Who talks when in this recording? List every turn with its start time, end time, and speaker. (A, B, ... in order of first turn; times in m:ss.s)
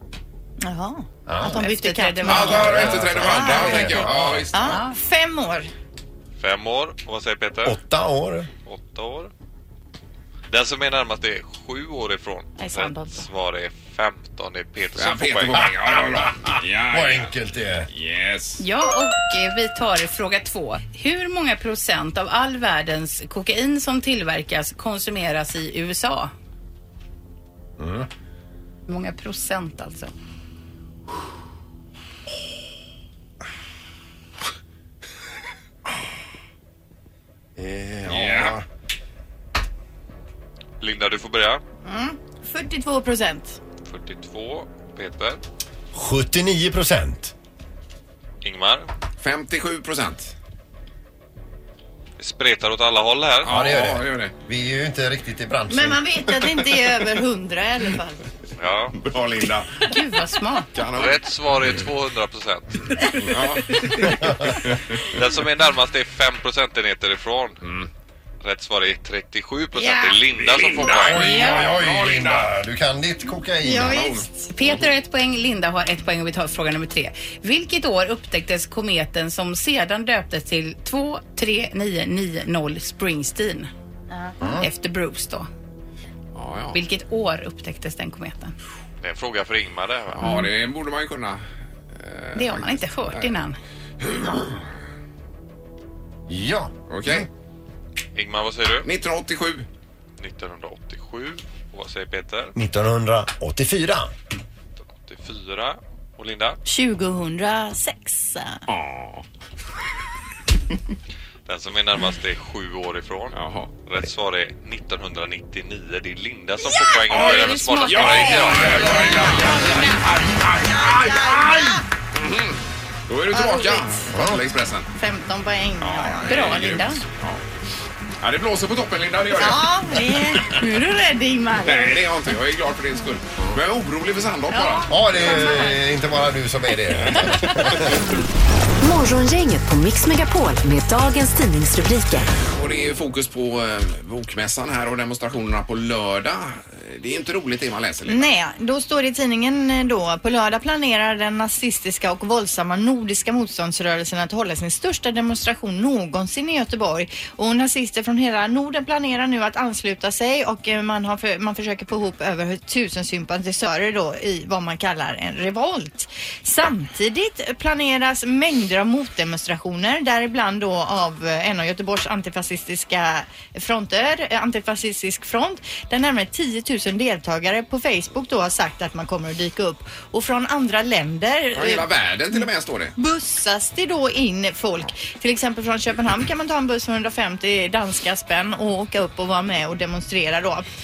0:00.6-0:05.7 A
0:01.3-0:01.6 B
0:01.4-0:03.0 C
0:02.3-0:04.8 D
0:02.4-0:04.5 B
0:04.7-0:05.0 C
0:06.4-0:07.8 E
0:07.6-0:08.5 B
0:08.6-0:09.3 E
0:10.5-0:15.7 E
0:12.6-0:13.2 A
0:15.0-0:17.3 D
0:16.2-0:17.9 B
0:17.9-0:18.6 D
0:18.6-0:26.3 C
0:27.8-0:28.1 B
0:28.9-0:30.1 C
0:37.6-0:38.6 B
0:38.1-0:38.6 D
0:40.8-0:41.6 E
0:41.8-0:43.6 A
0:43.9-0:45.4 E
0:45.9-0:47.3 B
0:48.4-0:48.9 E
0:49.2-0:50.3 D
0:52.2-0:53.6 E
0:53.4-0:54.3 D
0:53.4-0:56.0 B
0:55.7-0:58.2 A
0:58.6-0:59.0 E
0:59.0-0:59.8 D
0:59.9-1:00.7 C
1:00.7-1:01.8 D
1:00.9-1:02.7 E
1:03.2-1:04.3 D
1:05.1-1:07.6 E
1:07.6-1:07.9 D
1:08.4-1:11.4 E
1:09.8-1:10.2 A
1:10.4-1:12.5 D
1:11.0-1:14.2 B
1:13.6-1:14.5 A
1:14.5-1:23.7 C
1:14.6-1:14.9 D
1:24.1-1:24.4 A
1:24.4-1:24.7 B
1:24.6-1:25.5 C
1:26.3-1:26.8 D
1:26.7-1:28.5 C
1:29.0-1:30.4 E
1:30.1-1:33.3 D
1:32.4-1:33.6 C
1:34.0-1:34.6 D
1:36.3-1:37.3 B
1:36.9-1:37.3 D
1:38.2-1:38.9 E
1:38.8-1:39.7 D
1:40.2-1:42.5 E
1:42.6-1:44.1 B
1:44.9-1:46.6 E
1:46.6-1:48.6 A
1:48.7-1:49.2 D
1:51.5-1:59.3 E
1:53.3-1:53.7 D
1:56.9-2:01.8 A
1:57.1-2:04.9 D
1:57.3-1:58.1 C
2:03.3-2:04.1 A
2:04.1-2:04.4 B
2:05.0-2:07.0 A
2:05.8-2:07.4 D
2:06.3-2:07.0 C
2:08.2-2:10.1 D
2:09.3-2:12.0 A
2:11.6-2:15.5 D
2:14.5-2:15.8 A
2:14.9-2:18.0 B
2:17.2-2:17.5 D
2:18.8-2:22.3 F
2:22.5-2:28.3 D
2:28.1-3:10.7 A
3:01.6-3:02.9 D